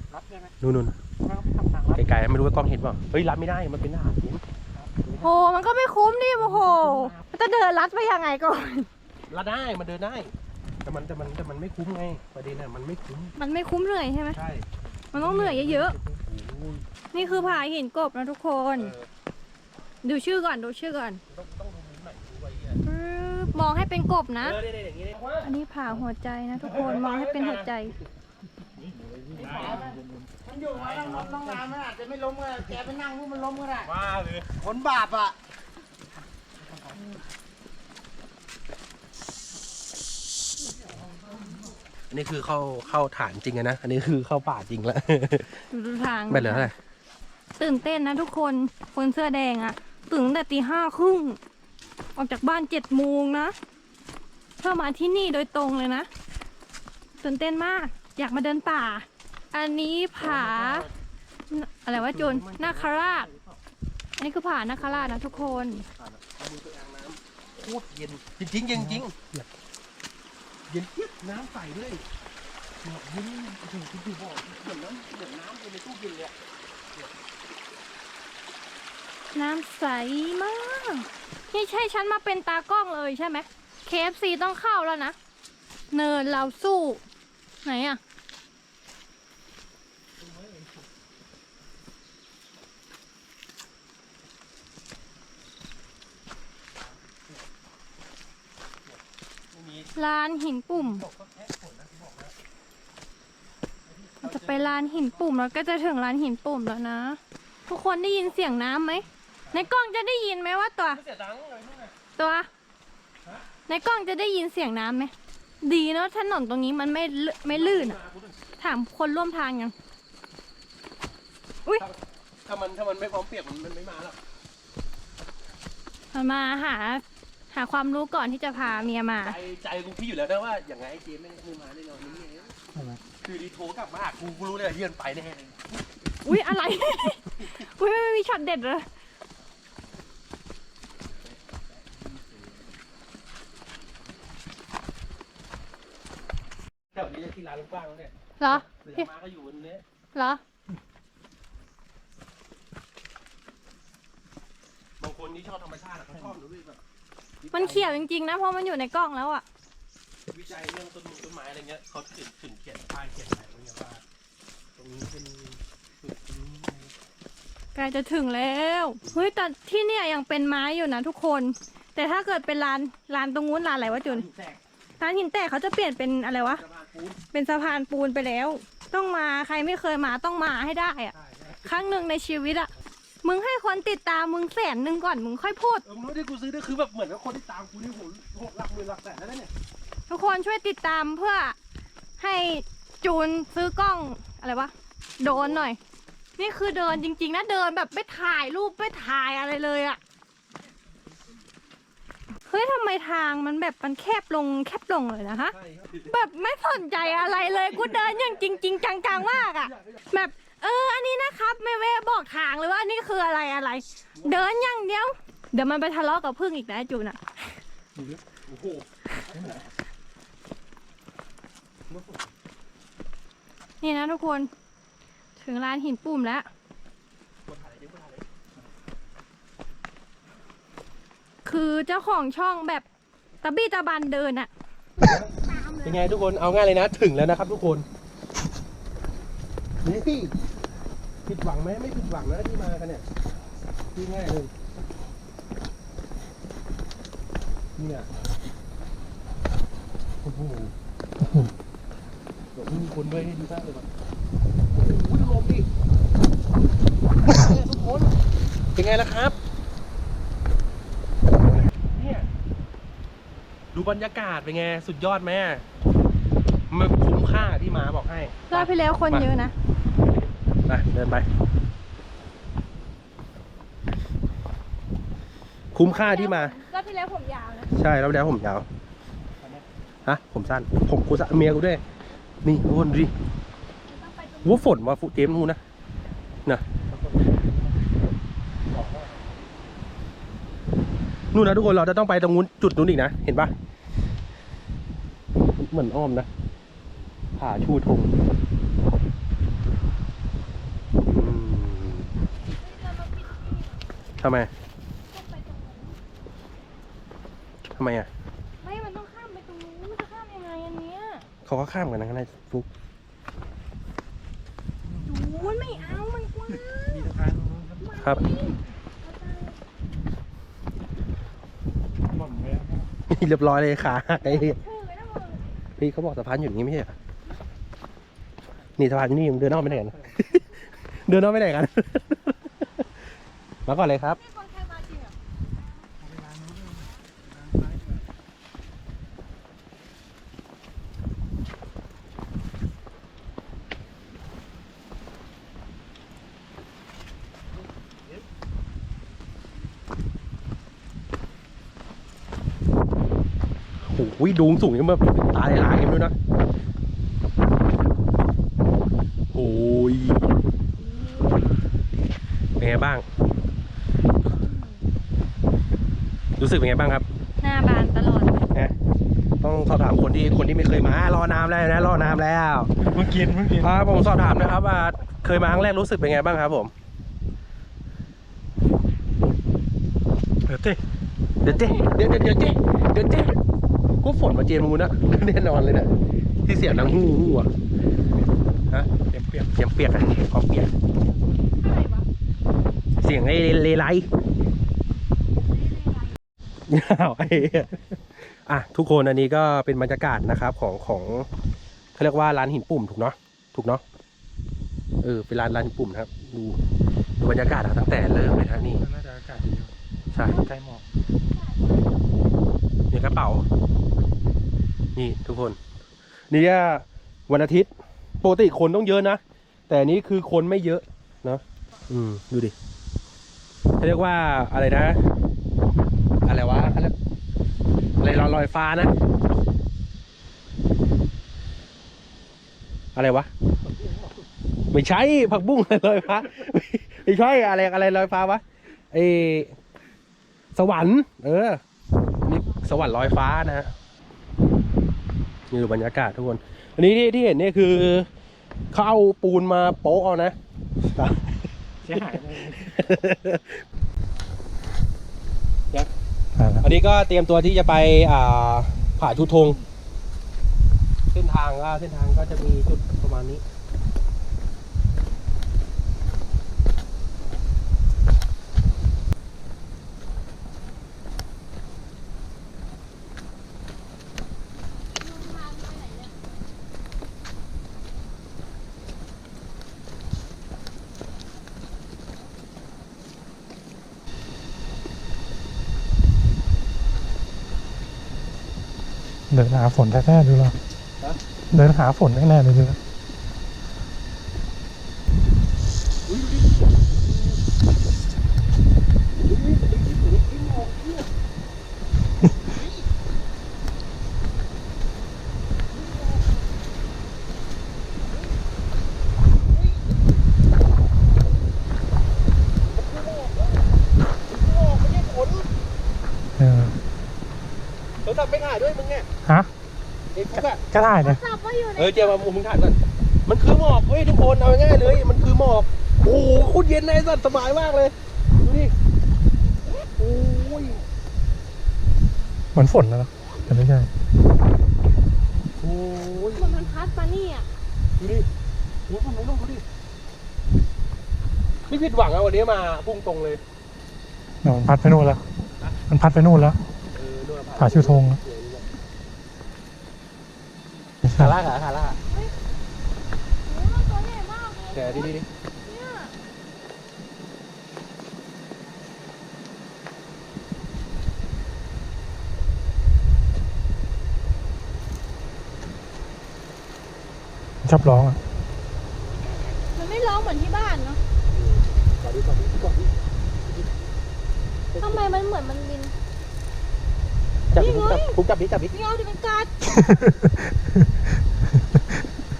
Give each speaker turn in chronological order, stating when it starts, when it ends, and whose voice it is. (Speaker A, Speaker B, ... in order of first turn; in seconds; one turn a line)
Speaker A: 0.6-1.0
Speaker B: 1.5-1.8
Speaker A: 1.9-4.4
Speaker A: 5.0-5.3
Speaker C: 5.2-8.9
Speaker A: 9.3-10.3
Speaker A: 10.8-13.3
Speaker C: 13.4-14.4
Speaker A: 14.3-14.7
Speaker C: 15.1-16.0
Speaker D: 15.2-15.8
Speaker A: 16.2-17.5
Speaker C: 17.1-18.9
Speaker A: 18.8-19.1
Speaker C: 20.0-21.2
Speaker A: 21.3-22.8
Speaker C: 22.8-24.6
Speaker A: 24.4-25.5
Speaker C: 25.4-27.9
Speaker A: 26.6-27.9
Speaker B: 29.1-33.7
Speaker A: 29.4-29.9
Speaker D: 29.6-30.0
Speaker A: 30.7-31.8
Speaker A: 32.5-33.0
Speaker A: 33.6-34.5
Speaker B: 34.8-35.3
Speaker A: 42.1-45.7
Speaker C: 45.7-46.7
Speaker A: 46.3-46.7
Speaker C: 47.6-51.4
Speaker C: 52.2-53.6
Speaker C: 54.6-56.1
Speaker C: 57.2-60.9
Speaker A: 60.2-60.9
Speaker C: 61.5-63.3
Speaker A: 61.9-63.6
Speaker C: 64.2-65.8
Speaker A: 64.7-69.4
Speaker A: 70.7-72.1
Speaker A: 72.8-76.3
Speaker C: 79.3-85.2
Speaker C: 85.9-87.0
Speaker C: 87.6-88.0
Speaker A: 99.5-99.9
Speaker C: 100.0-101.0
Speaker A: 100.7-102.3
Speaker A: 103.9-105.3
Speaker C: 104.2-111.0
Speaker A: 110.9-111.9
Speaker C: 112.2-112.5
Speaker C: 113.7-118.0
Speaker A: 117.5-118.5
Speaker C: 118.6-119.7
Speaker A: 121.8-124.2
Speaker C: 126.1-129.4
Speaker A: 128.6-132.6
Speaker A: 133.2-135.8
Speaker C: 136.2-138.9
Speaker A: 146.9-149.8
Speaker C: 148.4-149.1
Speaker C: 150.1-150.4
Speaker A: 155.0-156.8
Speaker A: 157.4-158.0
Speaker C: 157.5-159.4
Speaker A: 160.3-164.0
Speaker A: 164.8-166.9
Speaker C: 167.8-174.3
Speaker A: 174.0-174.6
Speaker C: 175.0-176.6
Speaker A: 176.4-177.2
Speaker C: 177.3-182.7
Speaker A: 181.1-182.0
Speaker C: 183.2-185.8
Speaker A: 185.8-189.5
Speaker C: 190.1-191.6
Speaker C: 192.2-195.8
Speaker A: 195.2-195.7
Speaker C: 196.4-200.0
Speaker C: 202.5-217.6
Speaker A: 205.5-206.2
Speaker A: 206.9-208.4
Speaker A: 209.3-210.0
Speaker A: 214.2-214.5
Speaker A: 218.3-219.7
Speaker A: 221.9-222.3
Speaker C: 223.8-224.5
Speaker C: 225.4-226.5
Speaker A: 227.5-228.2
Speaker C: 231.4-232.8
Speaker C: 233.4-234.5
Speaker A: 235.0-235.3
Speaker C: 235.1-236.0
Speaker A: 235.8-237.9
Speaker A: 239.8-240.3
Speaker A: 241.3-243.1
Speaker A: 243.9-244.5
Speaker A: 247.8-248.1
Speaker A: 250.2-250.7
Speaker A: 252.6-253.9
Speaker A: 254.7-255.7
Speaker A: 257.3-258.1
Speaker A: 258.8-259.4
Speaker A: 261.4-262.3
Speaker A: 263.7-265.6
Speaker A: 266.7-269.3
Speaker C: 268.5-269.5
Speaker A: 270.7-271.3
Speaker A: 275.7-276.6
Speaker C: 275.8-277.7
Speaker A: 277.7-278.7
Speaker A: 280.1-281.8
Speaker A: 282.4-283.1
Speaker C: 283.9-284.7
Speaker A: 284.4-285.6
Speaker A: 291.3-293.5
Speaker A: 295.6-296.3
Speaker A: 297.4-298.1
Speaker A: 301.0-302.1
Speaker C: 302.6-303.8
Speaker A: 304.2-304.5
Speaker C: 305.1-306.0
Speaker A: 307.8-308.1
Speaker C: 308.6-311.2
Speaker A: 311.4-312.7
Speaker D: 315.0-315.8
Speaker C: 315.1-317.1
Speaker D: 316.9-317.8
Speaker C: 317.8-319.6
Speaker D: 322.1-322.9
Speaker A: 323.1-324.6
Speaker C: 324.2-325.5
Speaker A: 325.8-327.0
Speaker A: 328.8-332.5
Speaker A: 333.7-334.2
Speaker C: 334.2-335.1
Speaker A: 353.9-356.1
Speaker A: 359.3-360.2
Speaker C: 360.8-361.4
Speaker A: 362.6-363.0
Speaker C: 364.4-364.7
Speaker A: 366.4-367.1
Speaker C: 367.4-368.5
Speaker A: 369.4-372.7
Speaker D: 372.8-373.7
Speaker A: 373.6-376.7
Speaker D: 380.5-380.8
Speaker A: 381.4-383.4
Speaker C: 381.5-382.0
Speaker A: 384.0-385.9
Speaker A: 386.4-387.5
Speaker D: 389.1-389.5
Speaker A: 389.5-390.7
Speaker C: 391.6-392.1
Speaker A: 393.0-394.1
Speaker C: 395.6-396.1
Speaker A: 396.7-401.3
Speaker A: 402.0-403.8
Speaker A: 405.0-406.6
Speaker A: 407.2-408.9
Speaker D: 408.0-409.7
Speaker A: 410.1-410.5
Speaker C: 410.2-410.5
Speaker D: 410.3-410.9
Speaker C: 411.4-412.1
Speaker A: 412.9-413.4
Speaker A: 415.0-415.6
Speaker A: 416.3-422.5
Speaker A: 423.8-425.0
Speaker A: 426.2-426.9
Speaker A: 428.0-428.9
Speaker A: 432.9-433.3
Speaker A: 434.7-439.6
Speaker A: 440.6-441.6
Speaker A: 442.2-443.7
Speaker A: 445.5-448.1
Speaker A: 448.7-450.4
Speaker A: 450.9-453.6
Speaker D: 451.9-452.6
Speaker D: 456.4-456.6
Speaker A: 456.6-459.6
Speaker A: 461.1-463.4
Speaker D: 489.3-490.6
Speaker D: 491.5-492.8
Speaker A: 496.1-497.4
Speaker A: 499.2-501.1
Speaker A: 502.4-502.9
Speaker A: 505.7-506.2
Speaker A: 512.7-513.6
Speaker A: 514.3-515.5
Speaker D: 516.4-516.8
Speaker A: 518.0-519.1
Speaker D: 519.2-519.5
Speaker A: 520.1-520.6
Speaker D: 520.7-521.2
Speaker C: 521.0-522.2
Speaker A: 521.8-528.7
Speaker A: 530.0-530.8
Speaker D: 532.5-533.9
Speaker A: 535.6-536.9
Speaker C: 536.3-537.5
Speaker A: 538.0-538.3
Speaker A: 538.9-539.6
Speaker A: 541.7-543.4
Speaker D: 544.4-545.2
Speaker A: 545.5-545.8
Speaker D: 545.9-546.6
Speaker A: 546.9-548.7
Speaker D: 547.6-548.2
Speaker D: 551.0-551.3
Speaker A: 551.1-552.0
Speaker C: 553.5-556.1
Speaker A: 554.7-555.3
Speaker D: 567.6-568.2
Speaker C: 569.7-571.0
Speaker A: 571.3-572.9
Speaker A: 574.7-575.2
Speaker C: 574.8-575.9
Speaker A: 577.5-578.8
Speaker C: 577.5-578.2
Speaker C: 578.7-579.8
Speaker D: 579.7-580.7